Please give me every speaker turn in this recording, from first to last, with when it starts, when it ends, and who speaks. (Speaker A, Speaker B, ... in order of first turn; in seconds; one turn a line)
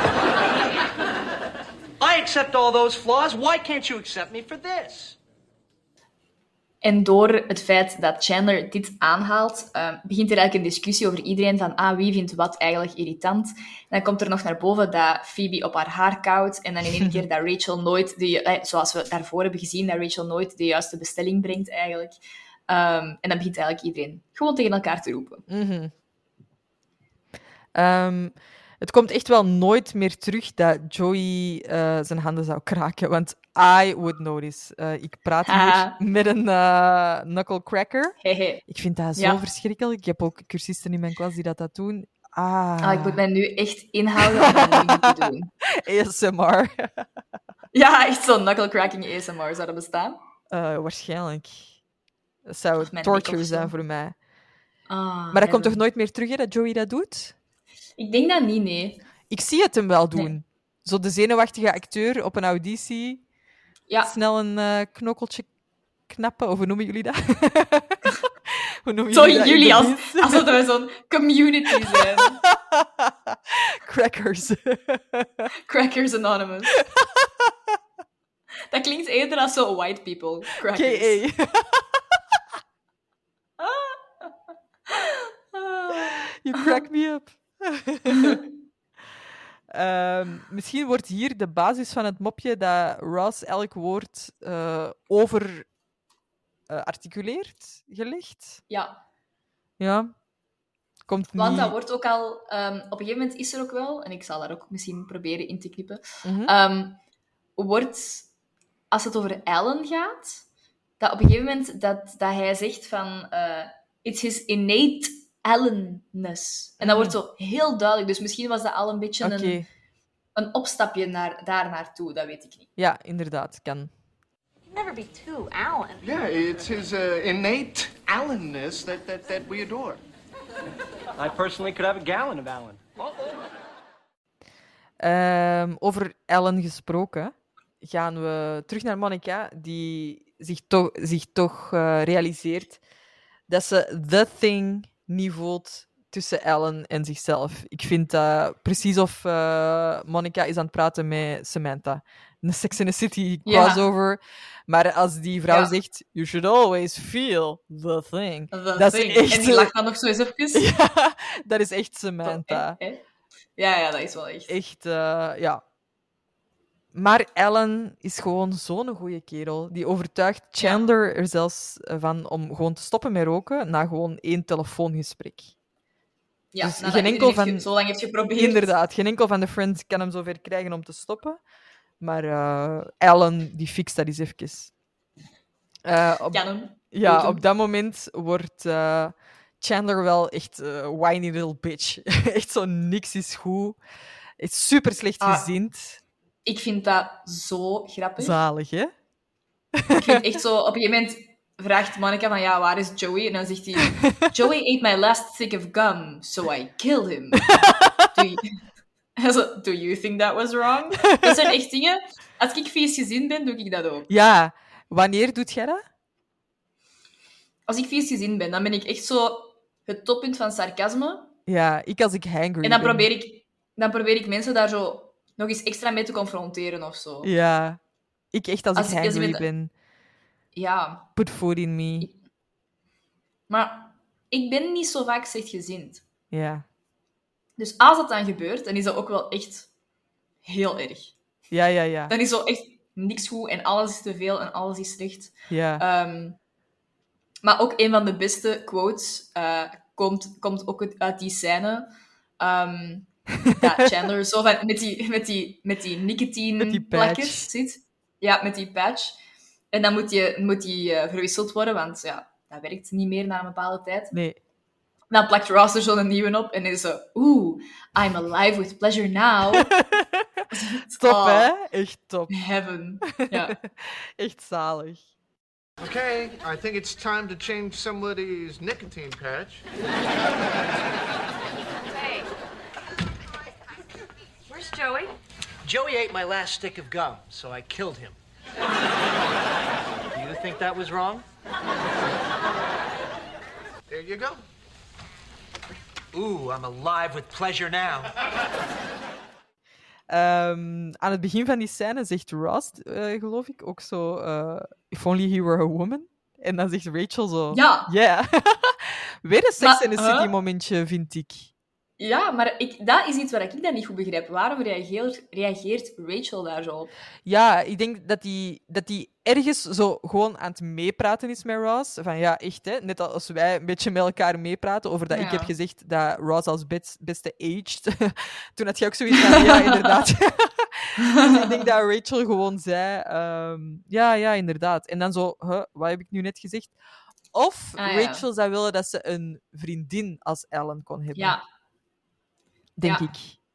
Speaker A: 2.0-5.2
Speaker B: 6.8-22.2
Speaker C: 17.0-17.2
Speaker B: 22.7-25.4
Speaker C: 25.5-25.9
Speaker C: 27.7-38.1
Speaker B: 35.5-36.0
Speaker B: 38.2-38.6
Speaker C: 38.7-43.2
Speaker B: 42.8-45.5
Speaker C: 44.2-47.1
Speaker B: 47.7-50.2
Speaker C: 50.5-51.7
Speaker C: 52.5-54.1
Speaker B: 52.8-53.7
Speaker B: 54.9-55.8
Speaker C: 55.3-57.3
Speaker B: 58.0-59.0
Speaker C: 59.3-63.2
Speaker C: 64.0-65.5
Speaker C: 66.1-70.5
Speaker B: 69.1-72.4
Speaker C: 71.9-75.5
Speaker B: 75.7-76.8
Speaker C: 76.8-77.2
Speaker B: 78.7-81.2
Speaker C: 80.7-82.0
Speaker B: 83.6-84.3
Speaker B: 84.9-86.8
Speaker C: 85.9-88.4
Speaker C: 89.7-95.7
Speaker C: 96.7-98.6
Speaker B: 98.7-99.0
Speaker C: 99.8-100.1
Speaker C: 101.1-101.7
Speaker B: 101.3-107.0
Speaker C: 106.2-106.5
Speaker B: 107.6-108.3
Speaker B: 108.9-110.4
Speaker B: 111.0-119.6
Speaker C: 116.8-117.1
Speaker C: 119.2-119.7
Speaker B: 120.3-122.7
Speaker C: 122.8-123.9
Speaker D: 124.7-126.0
Speaker E: 126.0-130.0
Speaker A: 131.1-132.8
Speaker C: 135.0-142.8
Speaker C: 143.5-159.7
Speaker B: 153.4-153.8
Speaker B: 158.5-160.6
Speaker C: 160.5-162.8
Speaker B: 162.2-163.0
Speaker B: 163.6-164.5
Speaker C: 164.5-165.6
Speaker C: 166.9-175.5
Speaker B: 170.6-170.8
Speaker B: 176.5-178.7
Speaker C: 176.6-177.7
Speaker C: 178.4-181.4
Speaker C: 182.0-184.7
Speaker C: 185.8-193.8
Speaker B: 186.3-187.4
Speaker C: 194.4-196.0
Speaker B: 195.2-195.5
Speaker B: 196.4-198.3
Speaker C: 198.2-198.9
Speaker C: 199.8-200.2
Speaker B: 199.9-208.6
Speaker C: 204.0-204.3
Speaker C: 207.5-208.1
Speaker B: 209.2-214.1
Speaker C: 214.1-215.8
Speaker B: 217.7-221.3
Speaker C: 221.5-223.1
Speaker B: 222.6-227.3
Speaker C: 227.2-227.8
Speaker C: 228.3-229.7
Speaker B: 228.8-229.4
Speaker B: 230.5-231.1
Speaker C: 231.2-232.1
Speaker B: 233.5-236.0
Speaker C: 236.3-236.6
Speaker B: 237.6-239.7
Speaker B: 240.4-241.1
Speaker C: 241.5-242.1
Speaker B: 242.1-246.4
Speaker C: 245.5-245.8
Speaker B: 247.4-251.9
Speaker B: 252.4-259.1
Speaker C: 256.6-257.5
Speaker B: 259.7-264.1
Speaker B: 265.1-269.7
Speaker C: 269.6-270.4
Speaker B: 270.5-271.5
Speaker C: 270.9-272.3
Speaker B: 272.3-273.6
Speaker C: 273.2-275.0
Speaker E: 275.8-279.6
Speaker D: 282.0-282.2
Speaker D: 284.5-285.1
Speaker A: 285.6-288.2
Speaker A: 290.1-291.2
Speaker E: 293.9-294.4
Speaker A: 296.1-298.1
Speaker C: 300.1-311.5
Speaker B: 307.5-307.9
Speaker B: 309.6-310.3
Speaker B: 312.0-316.9
Speaker C: 317.2-336.8
Speaker B: 325.1-325.5
Speaker B: 329.3-329.8
Speaker B: 331.1-331.5
Speaker C: 337.3-341.4
Speaker B: 337.8-338.2
Speaker B: 341.1-341.4
Speaker C: 342.8-343.4